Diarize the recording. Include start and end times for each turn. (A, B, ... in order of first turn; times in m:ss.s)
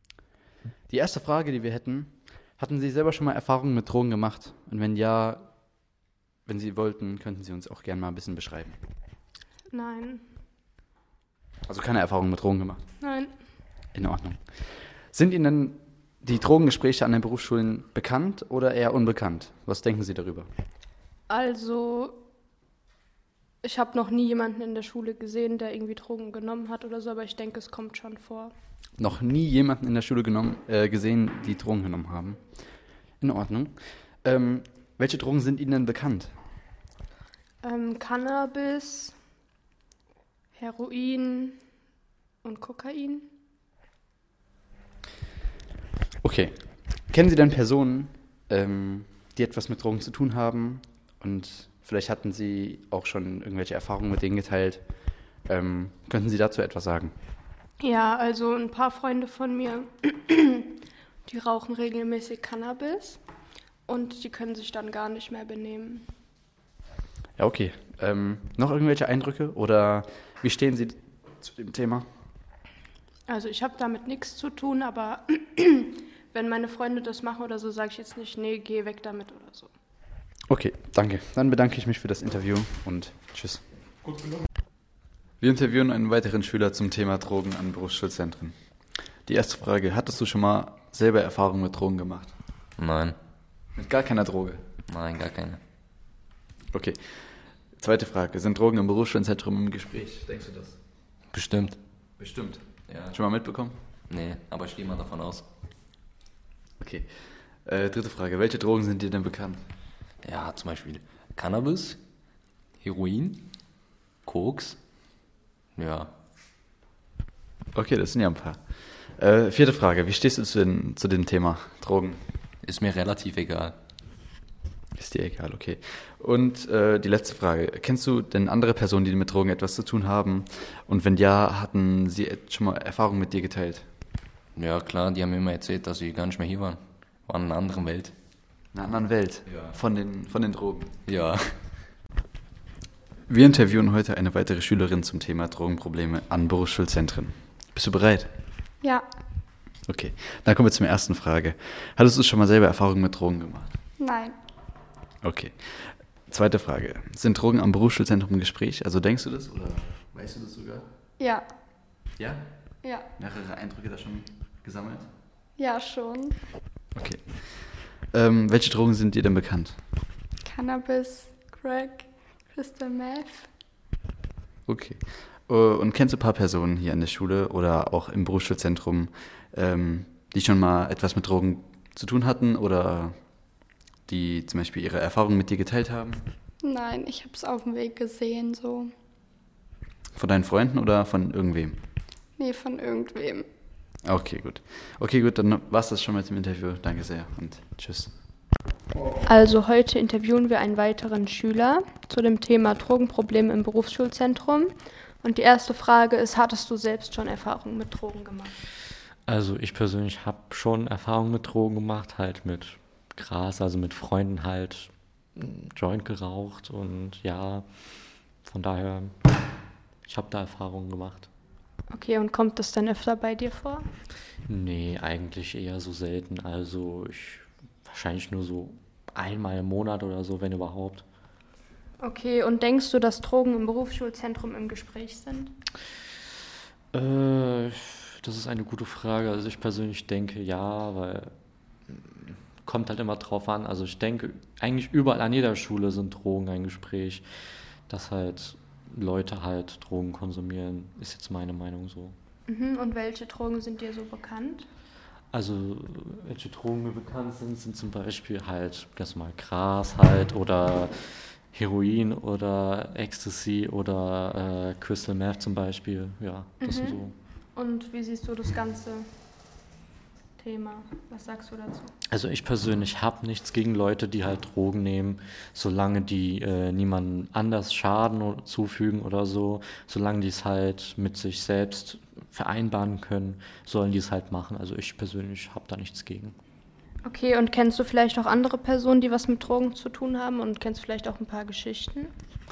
0:00.9-0:05.5 A
0:06.5-0:08.8 A
0:09.7-0:10.2 B
0:11.7-0:12.8 A
0:13.0-0:13.3 B
0:13.9-0:14.4 A
0:15.1-0:20.5 A
0:21.3-0:22.2 B
0:23.6-0:28.5 B
0:29.0-0:32.4 A
0:33.2-0:36.3 A
0:37.6-0:39.2 B
0:40.6-0:41.6 B
0:42.4-0:43.3 B
0:46.2-0:46.6 A
0:47.1-0:54.8 A
0:55.5-0:57.1 A
0:57.8-1:03.2 B
1:03.9-1:06.1 B
1:07.4-1:12.1 A
1:13.3-1:19.7 B
1:20.5-1:23.6 A
1:25.4-1:28.6 A
1:29.3-1:32.4 A
1:32.8-1:33.2 C
1:33.8-1:34.6 A
1:34.9-1:35.6 C
1:36.7-1:37.0 A
1:37.8-1:40.8 A
1:41.3-1:41.8 C
1:42.2-1:43.8 A
1:42.9-1:43.2 C
1:44.1-1:45.4 C
1:46.8-1:47.1 A
1:47.6-1:49.6 A
1:50.2-1:52.0 C
1:52.8-1:53.5 C
1:54.2-1:54.8 C
1:55.8-1:56.1 C
1:57.7-1:58.6 A
1:59.2-2:02.2 A
2:02.6-2:03.8 C
2:05.0-2:13.9 A
2:14.6-2:18.1 C
2:18.7-2:21.0 A
2:21.1-2:21.5 C
2:23.3-2:28.3 A
2:28.8-2:29.1 D
2:29.9-2:33.8 A
2:34.0-2:34.4 D
2:35.2-2:40.9 A
2:41.2-2:41.4 D
2:42.2-2:42.4 A
2:43.2-2:45.1 A
2:45.6-2:46.4 D
2:47.0-2:49.8 A
2:50.4-2:53.5 D
2:54.7-3:03.2 A
3:04.1-3:06.2 A
3:06.6-3:08.9 D
3:10.2-3:11.8 A
3:12.4-3:13.5 D
3:14.0-3:18.1 A
3:19.2-3:28.6 B
3:29.3-3:37.6 E
3:38.4-3:39.1 E
3:40.1-3:41.3 E
3:41.9-3:43.9 B
3:44.5-3:51.0 E
3:52.0-3:55.6 B
3:56.9-4:01.3 E
4:01.9-4:07.2 E
4:07.9-4:12.2 E
4:12.5-4:14.7 B
4:15.3-4:27.1 E
4:26.6-4:27.0 B
4:27.6-4:29.1 B
4:30.4-4:31.9 B
4:32.1-4:46.4 E
4:47.0-4:52.1 B